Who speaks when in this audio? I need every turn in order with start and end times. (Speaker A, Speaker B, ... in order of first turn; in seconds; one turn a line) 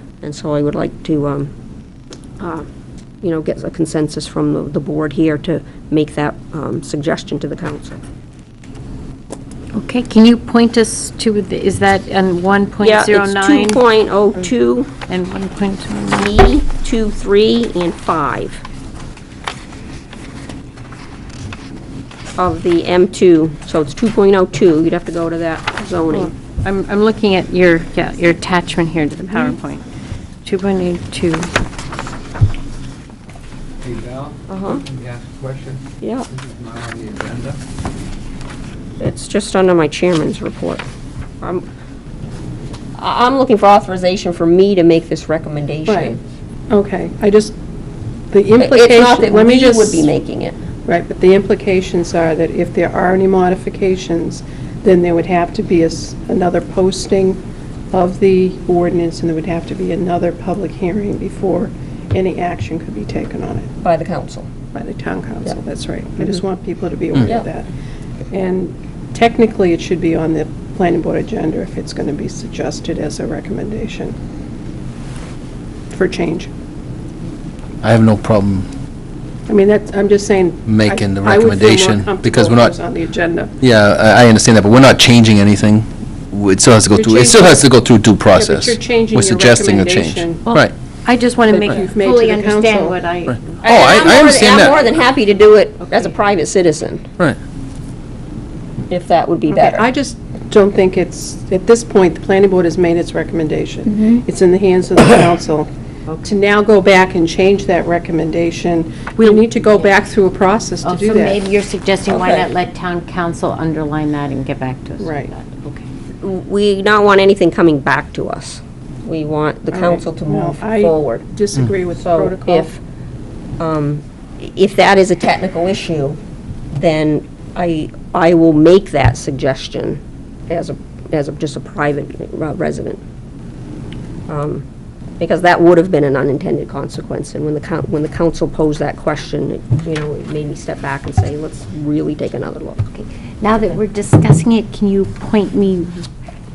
Speaker A: 0.2-1.5
Speaker A: 2.4-2.7
Speaker A: 3.2-8.0
Speaker B: 9.7-13.8
Speaker A: 12.8-14.9
Speaker B: 15.1-16.4
Speaker A: 16.1-18.6
Speaker A: 22.4-26.3
Speaker B: 26.1-29.8
Speaker B: 30.4-31.5
Speaker C: 33.8-34.3
Speaker A: 34.5-34.8
Speaker C: 34.9-35.8
Speaker A: 36.0-36.3
Speaker C: 36.4-37.6
Speaker A: 39.0-40.8
Speaker A: 43.0-46.2
Speaker D: 45.9-46.2
Speaker D: 46.7-47.5
Speaker D: 48.3-50.1
Speaker A: 48.6-50.6
Speaker D: 50.9-57.4
Speaker D: 57.9-63.7
Speaker A: 63.8-64.5
Speaker D: 64.7-67.7
Speaker D: 68.3-74.1
Speaker D: 75.9-76.5
Speaker E: 77.8-78.7
Speaker D: 79.5-83.5
Speaker E: 80.7-82.8
Speaker E: 83.6-90.7
Speaker D: 86.9-87.7
Speaker D: 88.3-90.4
Speaker B: 90.5-94.8
Speaker D: 91.5-93.1
Speaker E: 93.3-94.8
Speaker A: 93.6-97.1
Speaker A: 98.9-99.9
Speaker D: 99.5-105.7
Speaker D: 106.2-111.4
Speaker B: 109.2-109.6
Speaker B: 110.8-115.8
Speaker A: 112.1-112.5
Speaker D: 115.0-115.3
Speaker A: 116.2-121.2
Speaker D: 119.7-122.7
Speaker A: 122.0-122.8
Speaker A: 123.6-126.2
Speaker A: 126.7-133.0
Speaker A: 134.3-134.7
Speaker A: 135.2-142.9
Speaker B: 142.9-146.1